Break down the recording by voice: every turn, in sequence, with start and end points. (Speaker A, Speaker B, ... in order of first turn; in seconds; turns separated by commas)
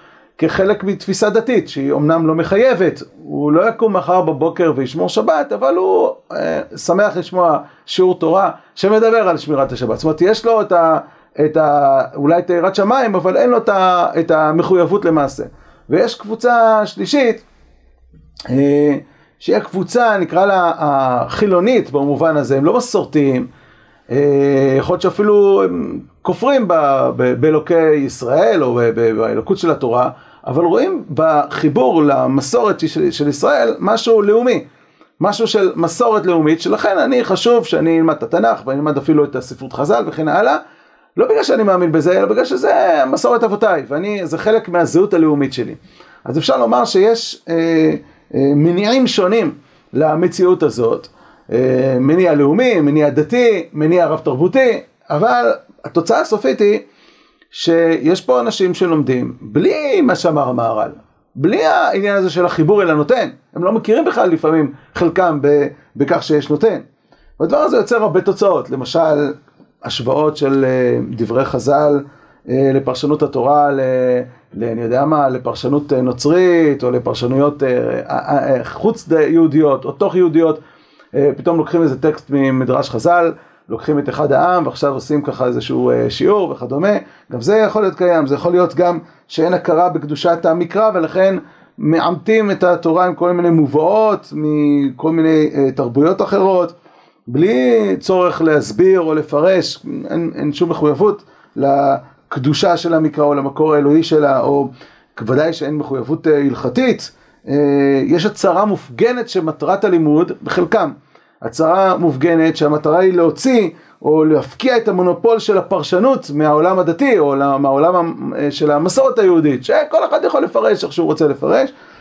Speaker A: 0.4-17.4, Speaker A: 18.5-23.5, Speaker A: 24.1-34.6, Speaker A: 35.2-40.6, Speaker A: 41.2-56.9, Speaker A: 57.5-66.8, Speaker A: 67.4-80.6, Speaker A: 81.2-96.8, Speaker A: 97.3-121.7